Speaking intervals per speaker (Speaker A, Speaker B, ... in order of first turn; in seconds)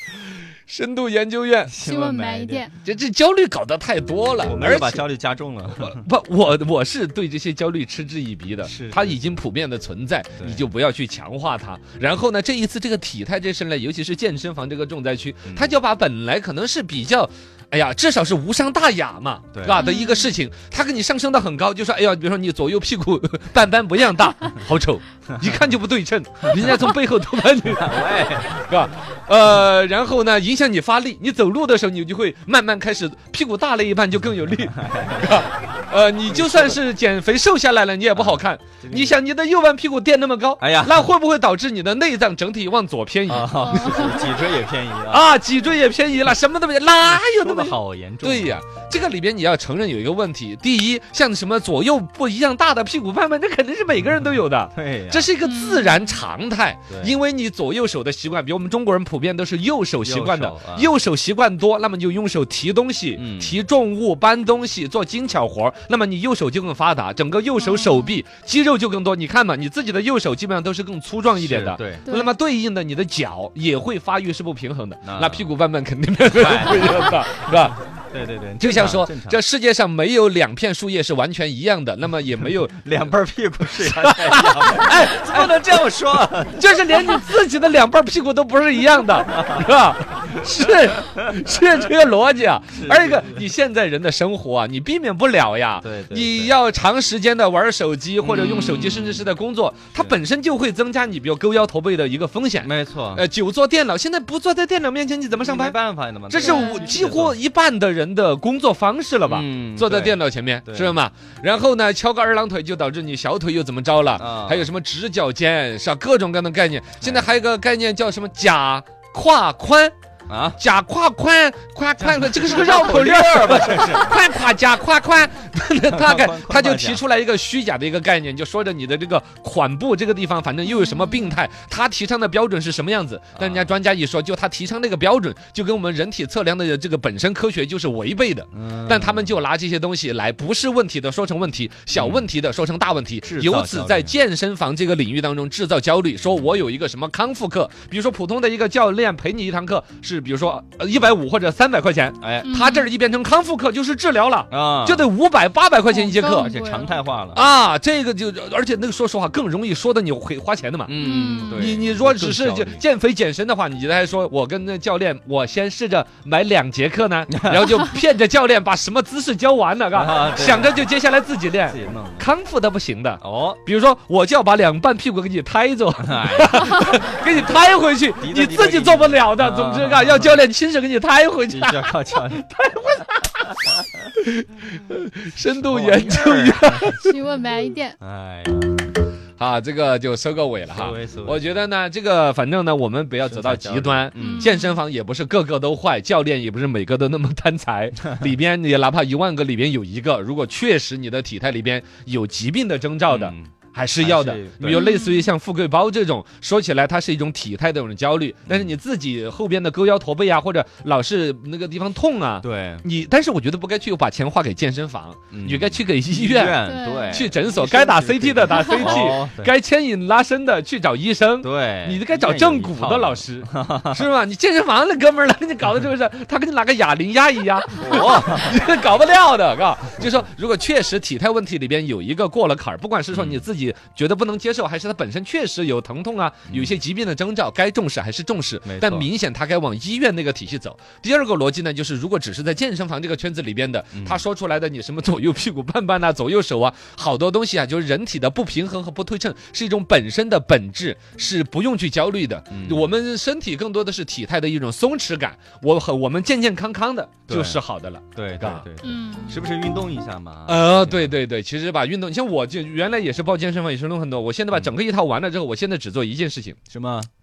Speaker A: 0.7-1.8, 2.8-5.0, 5.8-44.2, 45.1-77.8, 78.6-83.0, 83.7-105.8, 106.3-119.9, 120.6-156.5, 157.3-160.9, 161.5-187.1, 189.4-258.7, 260.5-266.6
Speaker B: 1.7-2.6, 4.4-6.0, 8.6-9.2, 10.4-10.7, 15.4-15.7, 19.5-19.8, 27.7-28.6, 34.7-35.4, 36.3-36.8, 38.1-39.2, 40.6-41.0, 43.3-45.3, 47.1-48.6, 54.7-55.3, 56.9-57.2, 60.0-60.9, 63.1-63.6, 71.3-72.1, 75.0-75.5, 76.3-77.5, 78.1-79.4, 82.7-86.7, 89.3-89.7, 92.7-93.5, 95.8-96.5, 98.2-99.3, 102.6-103.2, 105.4-107.4, 109.3-111.0, 114.2-114.7, 117.0-117.3, 120.3-120.6, 122.0-124.1, 125.8-127.0, 133.3-133.7, 138.5-139.3, 141.9-142.2, 143.2-144.1, 152.2-152.5, 154.5-155.1, 156.2-157.4, 160.9-162.8, 167.3-167.7, 169.9-170.9, 171.7-172.3, 173.2-173.6, 176.0-176.6, 178.2-180.4, 181.5-182.5, 185.4-186.9, 188.0-188.8, 190.7-191.6, 193.2-194.5, 203.1-204.8, 212.4-212.8, 215.3-219.5, 221.4-224.0, 227.8-228.6, 233.1-233.4, 236.5-236.7, 238.6-239.1, 243.9-244.2, 252.5-252.9, 257.3-257.6, 258.1-261.1, 266.7-267.1
Speaker C: 1.8-2.7, 19.7-20.3, 43.5-44.3, 55.4-56.2, 67.6-68.2, 72.0-72.3, 106.4-106.9, 130.7-131.3, 152.4-152.9, 155.9-157.0, 161.0-161.8, 187.0-188.0, 194.2-194.8, 204.7-205.3, 216.6-217.3, 218.5-218.9, 258.8-259.4